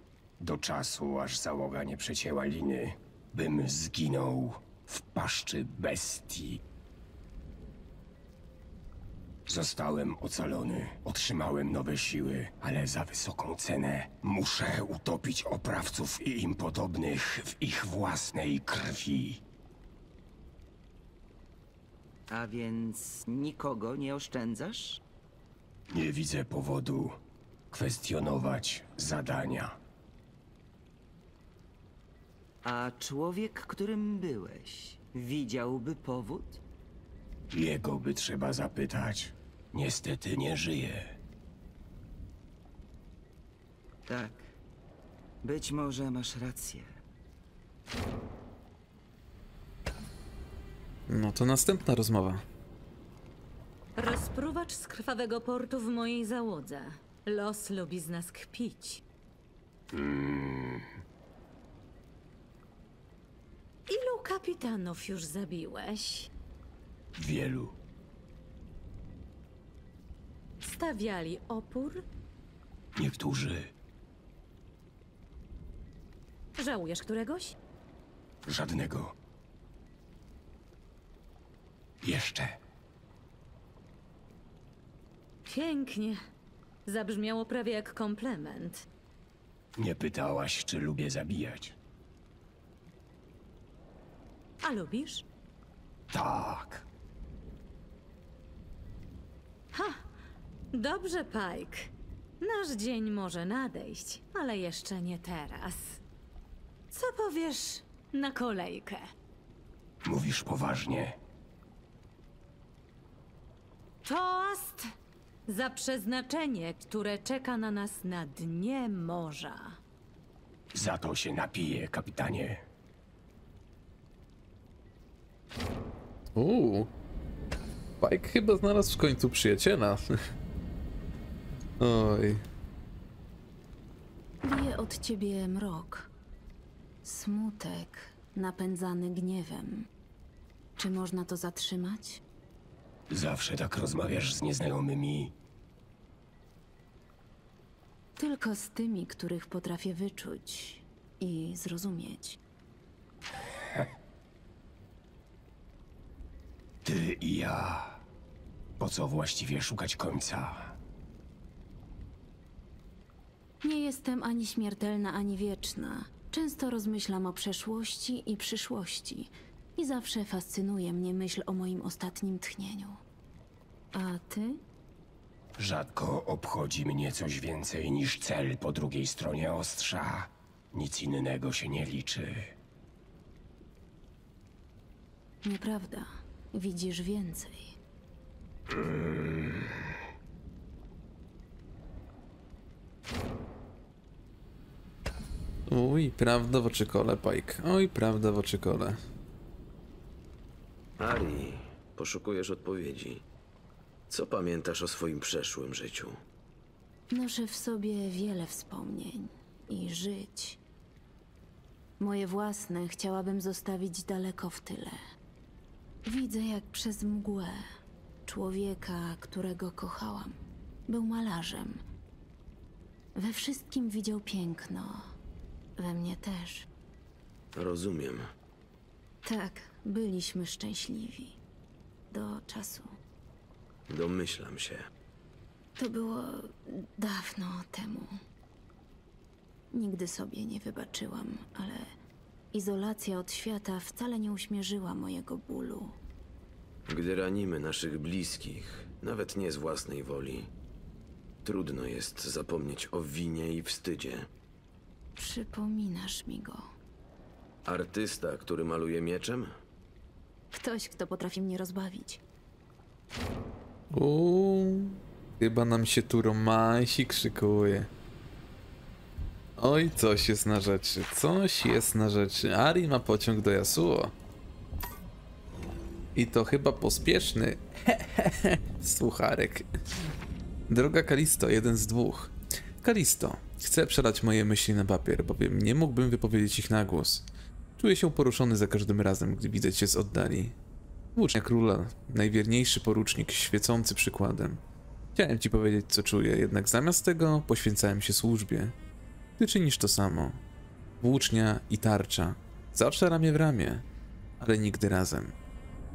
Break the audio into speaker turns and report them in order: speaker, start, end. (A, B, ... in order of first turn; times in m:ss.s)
0:00.4-0:06.6 A
0:09.5-0:19.4 A
0:22.3-0:25.0 B
0:25.9-0:27.2 A
0:27.7-0:29.8 A
0:32.6-0:36.6 B
0:37.5-0:41.2 A
0:44.1-0:44.4 B
0:45.4-0:46.9 B
0:51.1-0:52.4 C
0:54.0-0:59.0 D
0:59.9-1:00.9 A
1:03.9-1:06.3 D
1:07.2-1:07.8 A
1:10.6-1:12.0 D
1:13.0-1:13.7 A
1:16.6-1:17.6 D
1:18.4-1:19.1 A
1:22.0-1:22.6 A
1:25.5-1:26.2 D
1:26.9-1:28.8 D
1:29.8-1:31.8 A
1:34.6-1:35.2 D
1:36.1-1:36.9 A
1:39.7-1:40.0 D
1:40.7-1:46.0 D
1:46.9-1:49.1 D
1:50.0-1:51.2 A
1:54.0-1:54.9 D
1:55.5-1:59.8 D
2:00.7-2:02.6 A
2:06.4-2:06.9 C
2:08.0-2:10.0 C
2:11.8-2:12.4 C
2:14.4-2:16.1 E
2:17.0-2:19.9 E
2:20.8-2:22.2 E
2:23.1-2:25.4 A
2:28.2-2:32.4 E
2:36.8-2:38.0 A
2:38.8-2:40.8 A
2:43.6-2:53.0 E
2:53.9-2:54.6 E
2:55.6-3:02.5 A
3:05.4-3:07.7 E
3:08.7-3:09.6 A
3:15.7-3:19.0 C
3:21.0-3:23.2 F
3:24.1-3:26.2 F
3:27.1-3:30.6 E
3:32.0-3:35.0 E
3:36.1-3:37.6 E
3:38.3-3:40.4 E
3:40.9-3:41.8 E
3:43.2-3:45.1 E
3:45.8-3:46.7 E
3:47.5-3:48.3 F
3:49.2-3:51.4 E
3:52.1-3:52.9 E
3:53.9-3:54.9 F
3:55.8-3:58.1 E
3:59.7-4:01.9 E
4:02.5-4:06.0 E
4:06.9-4:10.5 F
4:11.4-4:14.3 F
4:15.2-4:16.6 E
4:17.7-4:19.5 F
4:20.5-4:22.2 E
4:23.9-4:27.9 C
4:29.6-4:34.1 C
4:36.2-4:39.7 C
4:40.7-4:47.2 C
4:47.8-4:50.5 C
4:51.2-4:54.6 C
4:55.2-4:58.8 C
4:59.4-5:00.4 C
5:01.0-5:03.8 C
5:04.4-5:05.3 C